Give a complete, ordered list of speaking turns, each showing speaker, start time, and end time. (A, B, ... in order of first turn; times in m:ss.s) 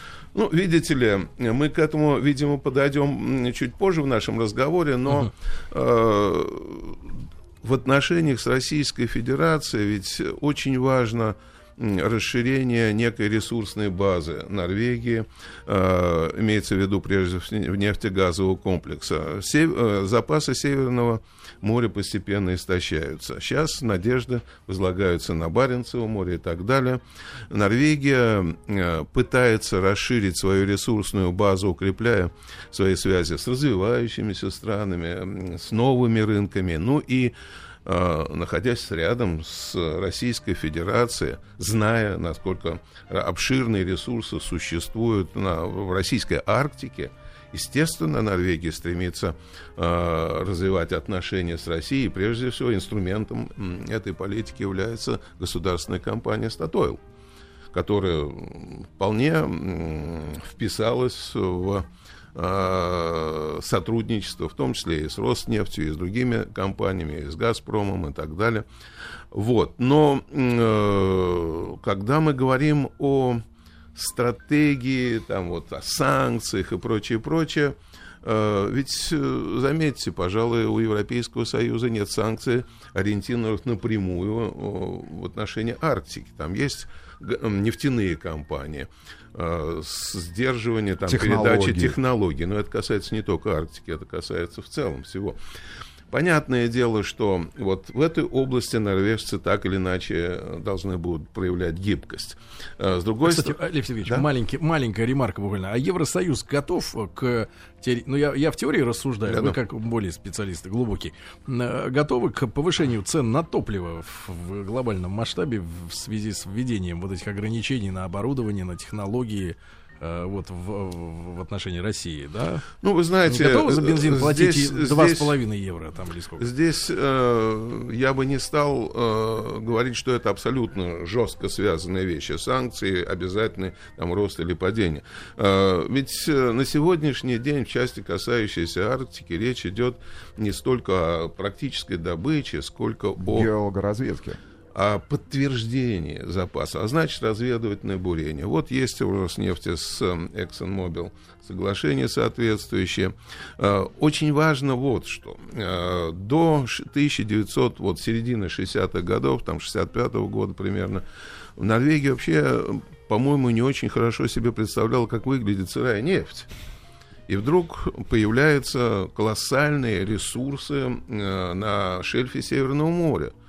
0:00.3-0:07.0 A
0:07.6-0:37.3 A
0:37.8-0:57.0 A
0:57.7-1:08.6 A
1:09.3-1:13.4 A
1:13.9-1:35.4 A
1:31.0-1:32.0 B
1:36.1-1:44.3 A
1:43.2-2:02.6 C
1:49.3-1:49.6 A
2:02.8-2:05.3 A
2:03.2-2:06.5 C
2:06.4-2:23.5 A
2:23.2-2:24.4 B
2:24.7-2:41.0 A
2:41.6-2:46.5 A
2:47.3-2:53.3 A